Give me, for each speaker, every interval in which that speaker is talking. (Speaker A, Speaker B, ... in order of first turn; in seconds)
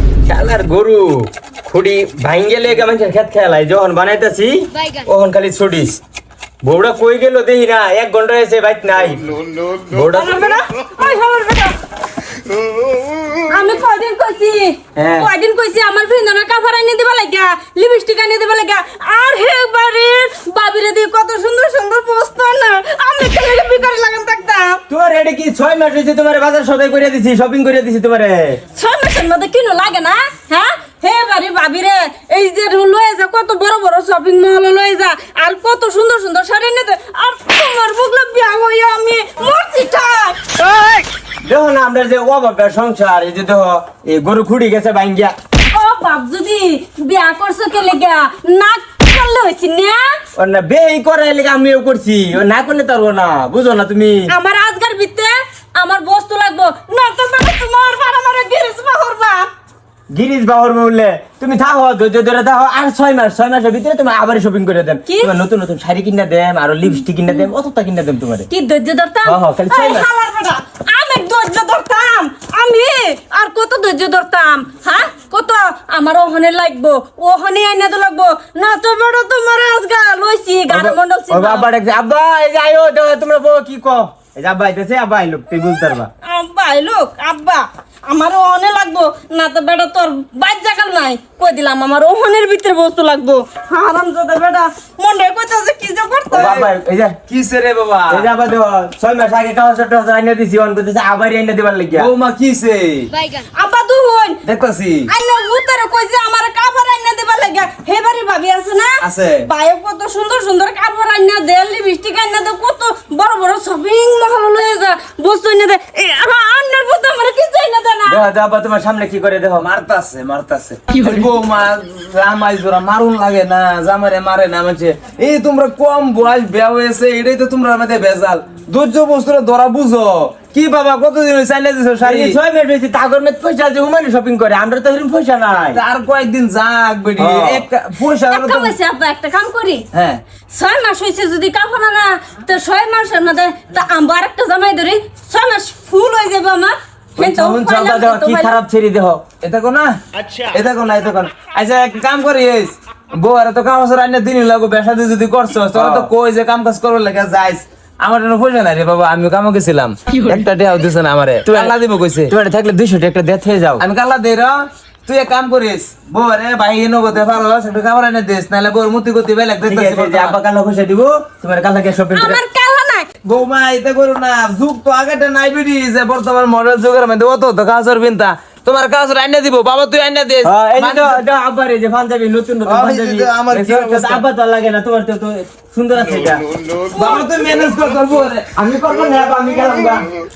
Speaker A: 0.3-6.0, 6.6-10.6, 15.0-15.3, 24.9-28.6, 41.4-45.4, 50.4-54.3, 60.1-68.5, 69.2-70.1, 80.7-86.1, 96.3-97.2, 98.1-102.1, 118.1-119.7, 132.0-135.8, 137.2-137.7, 147.2-149.2, 155.7-156.1, 161.5-163.8, 169.6-172.4, 180.4-186.5, 188.5-190.1
Speaker B: 10.1-11.8, 13.5-24.8, 28.7-40.6, 45.7-50.2, 54.3-59.5, 65.1-65.3, 68.5-81.7, 86.2-96.5, 103.4-104.4, 105.1-118.2, 138.3-139.9, 140.5-148.6, 172.1-173.1
Speaker C: 96.3-96.7, 97.3-98.3, 102.0-103.1, 104.5-105.1, 109.0-109.5, 119.6-132.4, 135.7-138.7, 139.9-140.2, 149.4-162.3, 163.8-170.4, 173.2-181.2, 182.7-184.2, 186.9-188.5